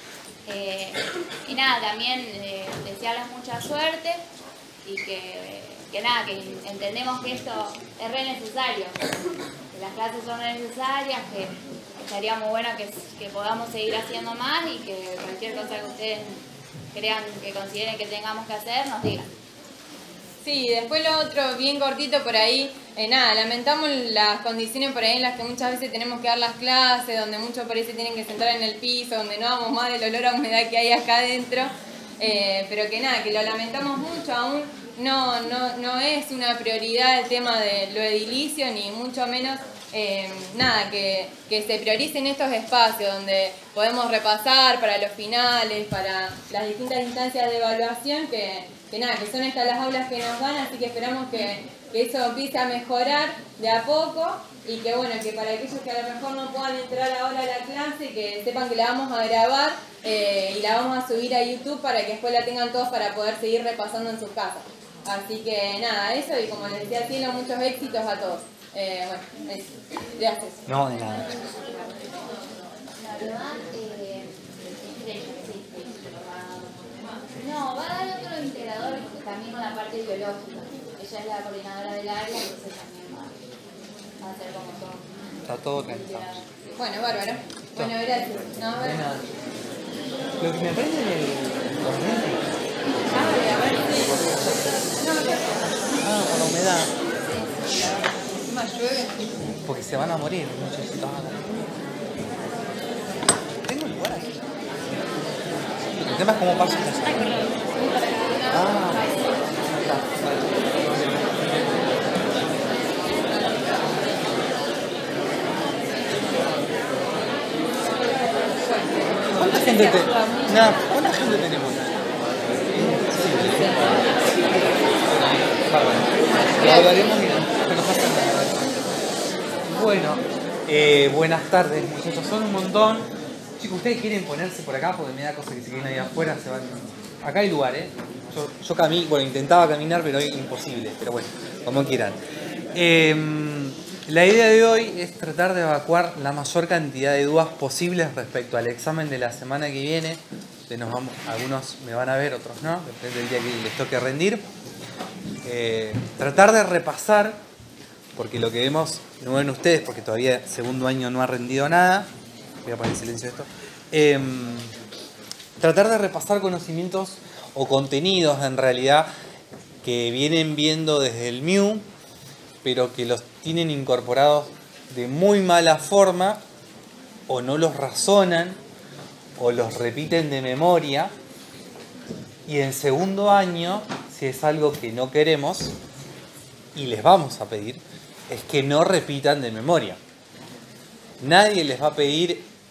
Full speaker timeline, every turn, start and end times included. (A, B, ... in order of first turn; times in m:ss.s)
0:00.4-0:04.2 A
0:04.8-0:09.0 A
0:09.7-0:16.3 A
0:16.9-0:19.3 A
0:20.4-1:10.6 B
1:10.6-1:11.5 C
1:12.9-1:16.7 A
1:17.3-1:23.4 A
1:24.2-1:25.1 A
1:25.4-1:26.4 C
1:25.8-1:26.4 A
1:26.8-1:29.0 B
1:28.8-1:29.2 C
1:30.4-1:32.4 C
1:33.1-1:35.4 C
1:36.0-1:36.9 C
1:39.6-1:41.6 C
1:43.6-1:44.4 C
1:46.0-1:47.4 C
1:48.5-1:49.1 C
1:49.6-1:50.5 C
1:59.3-2:01.9 C
2:02.7-2:04.1 C
2:05.0-2:08.8 C
2:09.7-2:22.2 C
2:22.7-2:34.4 C
2:35.4-2:37.4 C
2:38.1-2:42.1 C
2:42.6-2:44.7 C
2:45.6-2:49.1 C
2:49.8-2:51.9 C
2:52.6-2:56.4 C
2:57.3-2:58.6 C
2:59.4-3:01.1 C
3:02.4-3:05.7 C
3:06.7-3:10.0 C
3:11.2-3:12.4 C